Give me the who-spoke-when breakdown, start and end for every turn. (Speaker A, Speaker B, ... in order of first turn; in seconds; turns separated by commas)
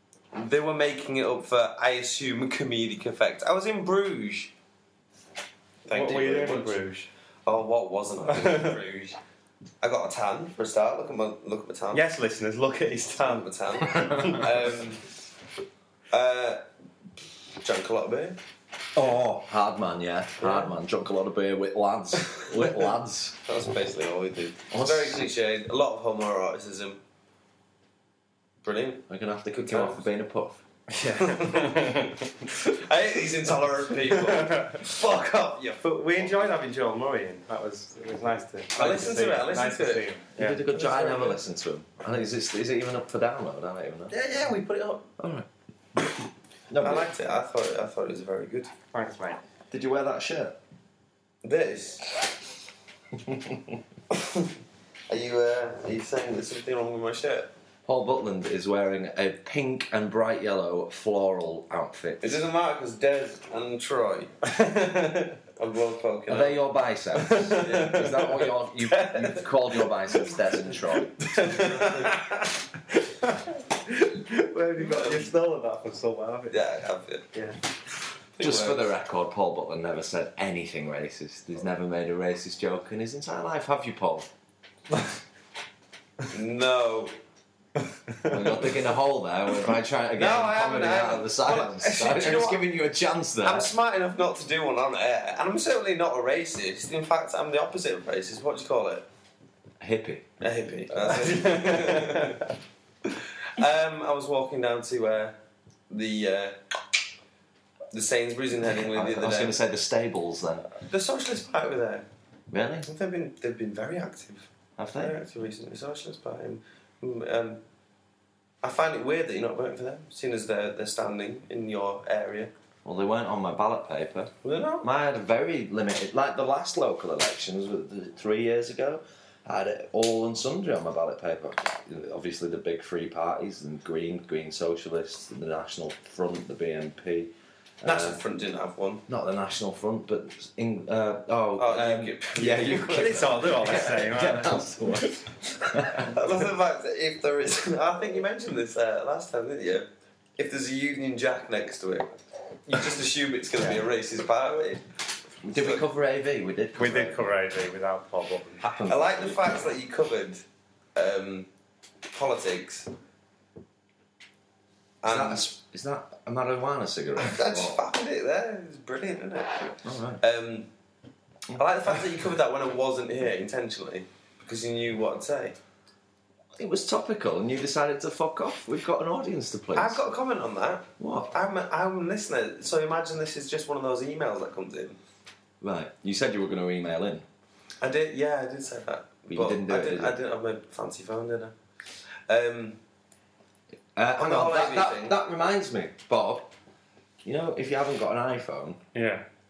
Speaker A: 0.3-4.5, Speaker A: 5.9-6.8, Speaker B: 5.9-7.1, Speaker A: 7.5-9.2, Speaker B: 8.3-8.8, Speaker A: 9.8-12.0, Speaker B: 11.9-14.5, Speaker A: 13.2-15.0, Speaker A: 16.1-16.6, Speaker A: 17.6-18.4, Speaker C: 18.9-23.4, Speaker A: 20.4-20.7, Speaker A: 23.5-27.0, Speaker C: 24.7-25.3, Speaker A: 28.6-30.0, Speaker C: 29.1-30.6, Speaker B: 30.9-32.3, Speaker A: 31.2-36.5, Speaker B: 34.2-34.8, Speaker B: 35.8-40.7, Speaker A: 38.8-40.1, Speaker C: 40.4-44.1, Speaker A: 40.7-41.4, Speaker B: 44.3-45.0, Speaker C: 45.2-46.2, Speaker C: 46.7-47.1, Speaker A: 46.8-48.7, Speaker B: 48.9-49.4, Speaker C: 49.7-50.6, Speaker A: 51.4-52.4, Speaker C: 53.2-53.8, Speaker A: 54.1-54.5, Speaker A: 55.1-57.5, Speaker C: 57.9-62.4, Speaker A: 62.2-64.3, Speaker B: 64.5-65.4, Speaker A: 65.6-66.6, Speaker C: 66.3-71.2, Speaker B: 67.2-68.0, Speaker A: 67.4-69.5, Speaker B: 71.2-76.6, Speaker A: 71.3-72.3, Speaker A: 74.8-75.3, Speaker A: 76.5-77.3, Speaker A: 78.4-78.9, Speaker C: 78.4-84.3, Speaker A: 86.3-87.1, Speaker C: 88.2-93.7, Speaker A: 90.2-92.6, Speaker A: 93.4-99.1, Speaker C: 99.8-100.3, Speaker A: 100.4-102.5, Speaker B: 101.1-102.4, Speaker A: 103.1-105.4, Speaker A: 105.9-106.6, Speaker A: 107.9-109.6, Speaker C: 108.9-110.7, Speaker A: 110.8-112.1, Speaker C: 112.5-112.9, Speaker A: 112.8-117.6, Speaker C: 114.8-115.2, Speaker A: 118.6-122.5, Speaker C: 122.8-138.2, Speaker A: 124.4-124.9, Speaker A: 137.8-139.0, Speaker C: 139.1-146.2, Speaker A: 141.6-143.4, Speaker B: 142.9-144.7, Speaker A: 146.0-149.9, Speaker A: 150.4-152.1, Speaker A: 152.7-154.8, Speaker C: 155.4-157.3, Speaker A: 155.5-155.8, Speaker B: 156.8-158.7, Speaker C: 158.6-159.4, Speaker A: 158.8-160.4, Speaker A: 160.9-161.5, Speaker A: 162.1-162.9, Speaker A: 165.0-165.5, Speaker C: 165.0-167.8, Speaker A: 167.2-170.7, Speaker C: 169.8-170.2, Speaker A: 171.6-175.6, Speaker C: 176.6-180.0, Speaker A: 179.8-185.0, Speaker C: 181.0-181.3, Speaker C: 185.6-187.2, Speaker A: 187.8-191.5, Speaker C: 189.3-190.2, Speaker A: 192.3-192.8, Speaker C: 194.0-196.5, Speaker A: 194.2-195.2, Speaker C: 197.2-198.8, Speaker B: 198.9-199.2